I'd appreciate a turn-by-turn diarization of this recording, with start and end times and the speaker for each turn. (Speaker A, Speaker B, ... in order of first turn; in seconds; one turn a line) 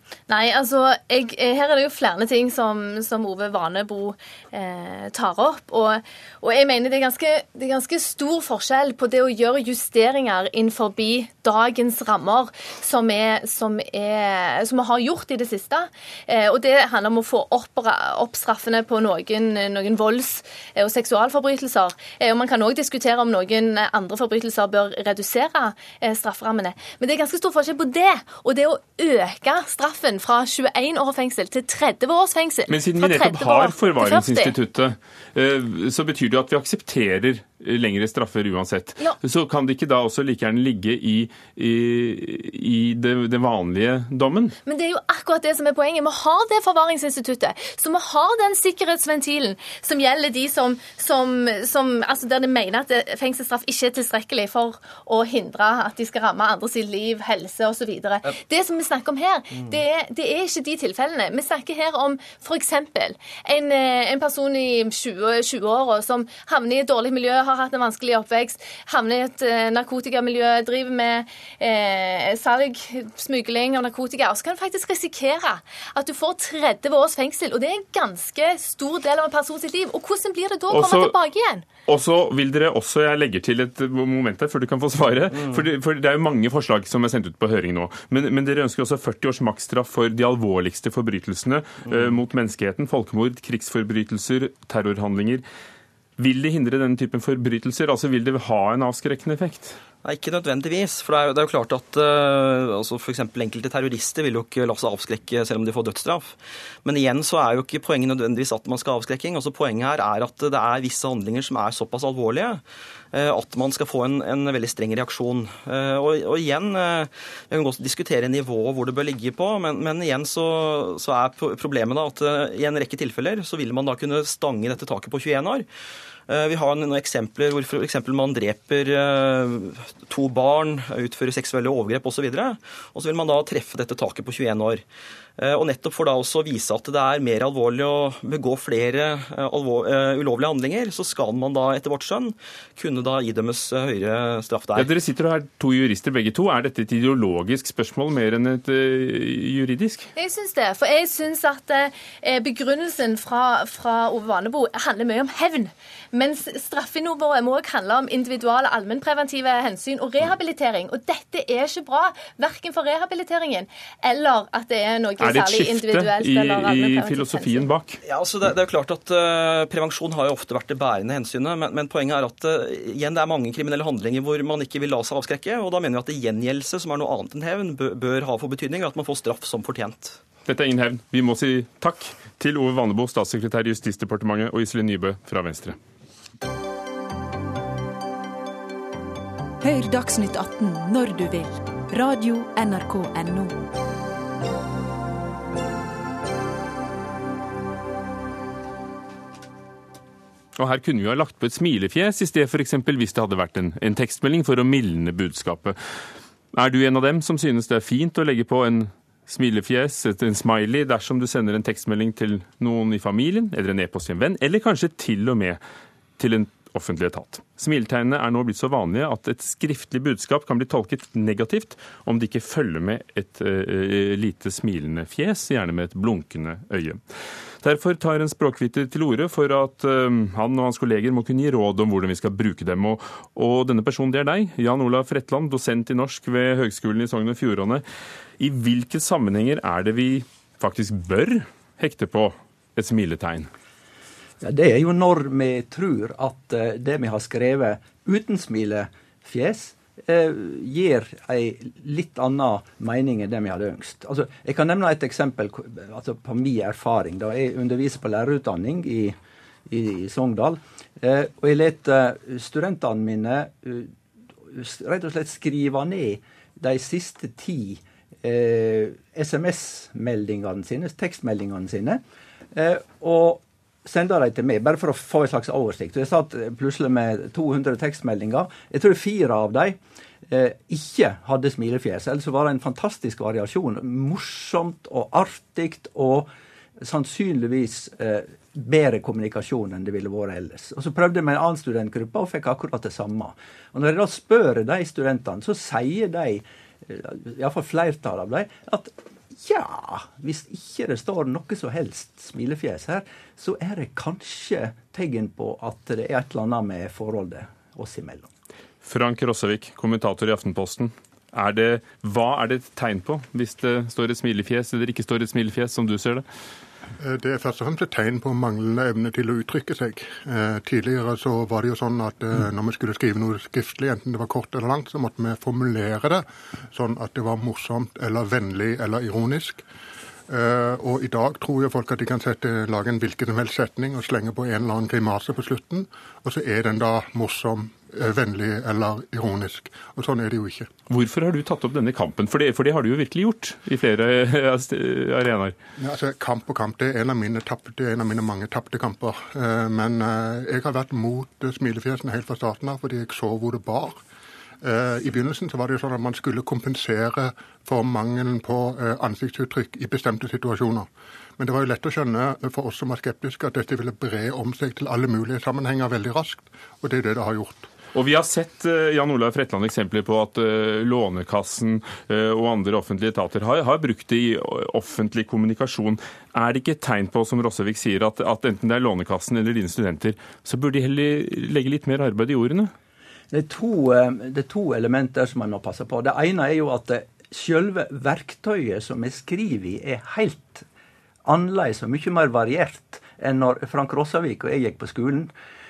Speaker A: 0.3-34.5
Speaker B: 32.7-44.5
Speaker A: 44.6-81.7
Speaker B: 80.7-81.1
Speaker B: 81.9-95.4
Speaker C: 85.3-85.6
Speaker C: 91.8-92.2
Speaker B: 96.2-99.8
Speaker C: 100.0-112.6
Speaker C: 113.1-125.7
Speaker C: 126.3-134.8
Speaker C: 135.4-144.9
Speaker B: 144.8-150.1
Speaker A: 150.2-167.7
Speaker B: 165.2-168.0
Speaker C: 168.0-180.2
Speaker B: 180.4-185.8
Speaker D: 189.6-193.6
Speaker B: 200.6-205.8
Speaker B: 206.5-215.6
Speaker B: 216.2-227.0
Speaker B: 227.6-237.8
Speaker B: 238.4-243.5
Speaker E: 244.4-259.1
Speaker E: 259.7-263.9
Speaker E: 264.5-272.0
Speaker E: 272.5-308.3
Speaker B: 308.8-316.2
Speaker F: 317.0-329.6
Speaker F: 330.3-340.7
Speaker B: 340.9-345.6
Speaker F: 345.8-354.0
Speaker F: 354.6-367.7
Speaker B: 367.9-382.7
Speaker E: 383.3-390.6
Speaker E: 391.2-395.3